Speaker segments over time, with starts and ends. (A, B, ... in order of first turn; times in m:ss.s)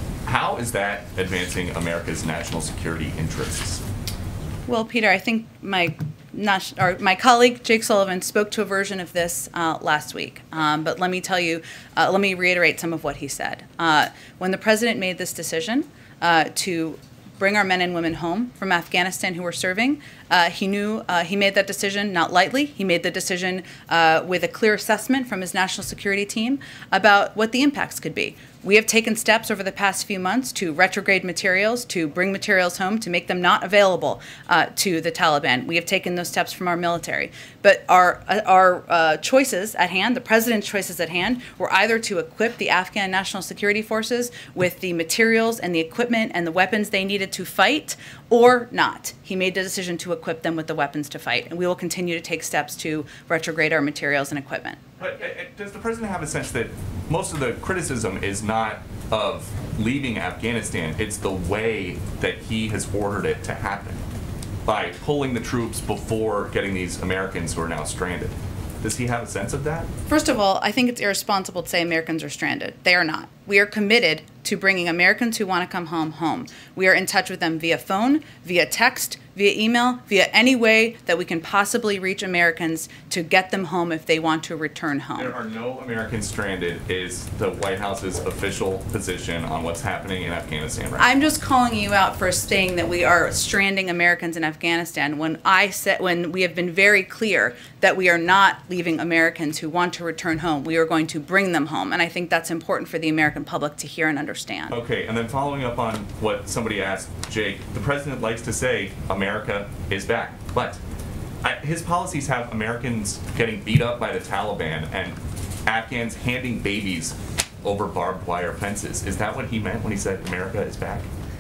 0:00.3-0:03.8 A
0:04.7-0:54.8 B
0:55.0-1:04.0 A
1:04.7-1:09.9 A
1:10.1-1:25.4 B
1:25.2-1:31.1 A
1:31.0-1:44.7 B
1:44.7-1:50.8 A
1:51.4-2:01.1 A